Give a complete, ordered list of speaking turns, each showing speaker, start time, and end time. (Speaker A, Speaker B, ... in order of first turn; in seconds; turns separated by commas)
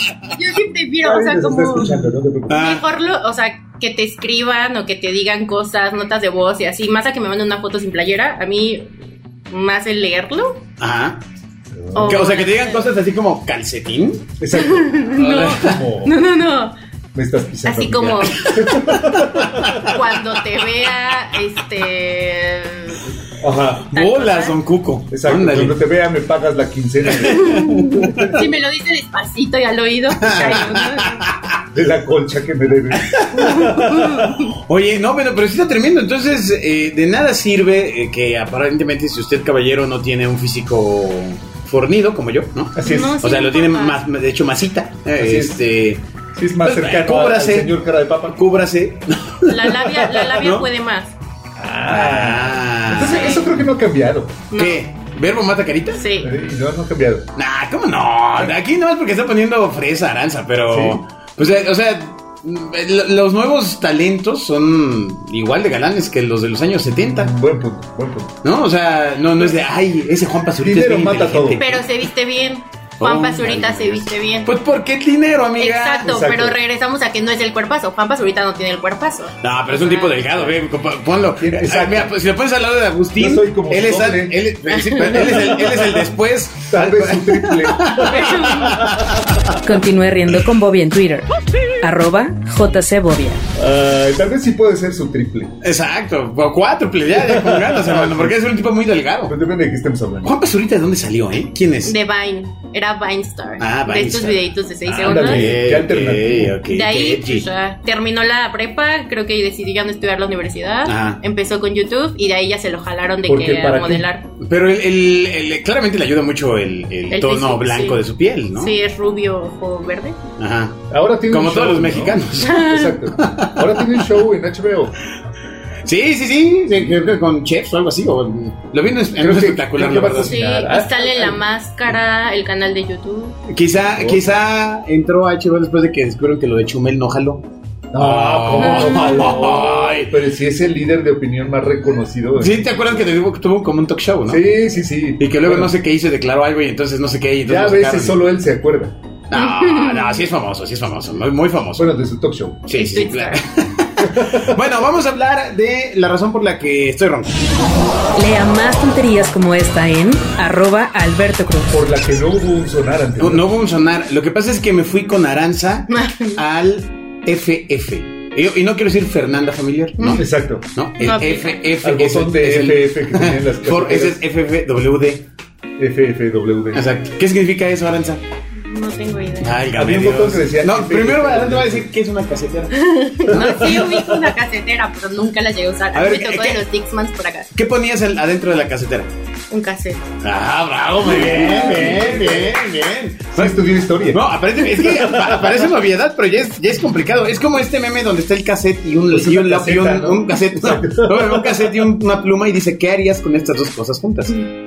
Speaker A: 0.3-1.9, Speaker B: 1.0-2.6, Speaker C: 2.5-2.8, Speaker A: 2.5-8.9, Speaker A: 9.5-10.6, Speaker C: 10.8-11.2, Speaker B: 11.7-12.2, Speaker A: 11.9-12.9, Speaker C: 12.0-14.3, Speaker B: 14.4-16.1, Speaker A: 14.5-16.7, Speaker C: 15.2-15.8, Speaker B: 17.1-20.0, Speaker A: 17.6-18.9, Speaker C: 18.4-19.9, Speaker A: 19.8-23.1, Speaker B: 23.4-23.9, Speaker C: 23.9-25.8, Speaker A: 23.9-24.6, Speaker B: 25.1-28.4, Speaker C: 27.1-28.3, Speaker A: 27.2-31.3, Speaker C: 30.2-31.6, Speaker B: 30.3-30.7, Speaker B: 31.7-34.0, Speaker C: 32.9-46.0, Speaker A: 33.4-34.5, Speaker B: 42.8-43.2, Speaker A: 42.8-44.0, Speaker B: 45.2-45.5, Speaker B: 46.4-48.4, Speaker C: 46.6-47.7, Speaker C: 48.3-50.7, Speaker A: 49.5-51.1, Speaker B: 51.6-54.4, Speaker C: 51.9-53.5, Speaker A: 53.1-53.4, Speaker A: 54.5-54.8, Speaker C: 54.5-56.1, Speaker A: 55.9-56.3, Speaker B: 56.2-57.3, Speaker C: 57.4-67.3, Speaker B: 60.7-61.0, Speaker B: 66.9-68.4, Speaker C: 68.4-71.8, Speaker B: 70.6-71.6, Speaker A: 71.6-74.5, Speaker C: 73.0-76.1, Speaker A: 75.6-80.5, Speaker B: 76.0-76.6, Speaker C: 79.4-88.9, Speaker B: 81.3-82.1, Speaker B: 83.2-84.5, Speaker A: 84.8-85.4, Speaker B: 85.0-86.1, Speaker B: 86.7-89.0, Speaker A: 88.0-88.9, Speaker D: 89.6-91.3, Speaker D: 91.8-93.4, Speaker B: 93.5-95.5, Speaker C: 95.6-99.3, Speaker B: 97.1-98.4, Speaker B: 99.2-100.3, Speaker C: 100.2-102.0, Speaker A: 101.8-105.5, Speaker C: 103.6-107.5, Speaker B: 104.9-106.6, Speaker A: 106.7-114.3, Speaker C: 110.8-111.2, Speaker B: 113.2-114.1, Speaker C: 114.4-118.7, Speaker A: 117.1-118.0, Speaker A: 118.5-120.2, Speaker C: 120.4-124.0, Speaker B: 120.9-124.9, Speaker A: 122.3-122.9, Speaker C: 125.8-130.5, Speaker B: 129.2-131.4, Speaker A: 130.2-133.4, Speaker C: 133.5-140.1, Speaker B: 133.8-134.4, Speaker B: 137.9-143.1, Speaker A: 138.6-139.4, Speaker C: 142.4-144.4, Speaker B: 144.3-145.7, Speaker C: 145.2-148.2, Speaker B: 147.4-148.9, Speaker C: 149.3-152.0, Speaker A: 149.3-150.2, Speaker B: 151.8-152.8, Speaker C: 152.7-157.4, Speaker A: 152.7-153.4, Speaker B: 154.0-154.6, Speaker D: 158.2-161.7, Speaker B: 161.7-163.5, Speaker C: 163.2-175.2, Speaker A: 165.9-166.4, Speaker A: 170.0-170.2, Speaker B: 170.1-170.6, Speaker A: 171.0-171.7, Speaker B: 171.8-174.2, Speaker B: 175.8-176.8, Speaker C: 176.7-178.2, Speaker A: 178.6-179.6, Speaker C: 179.4-182.7, Speaker B: 179.7-181.9, Speaker A: 182.7-187.5, Speaker C: 183.3-183.9, Speaker B: 183.3-184.2, Speaker C: 185.9-186.6, Speaker C: 187.5-189.1, Speaker A: 189.5-190.0, Speaker C: 190.2-204.5, Speaker B: 191.0-192.6, Speaker B: 193.3-194.2, Speaker B: 194.7-195.5, Speaker B: 199.1-201.9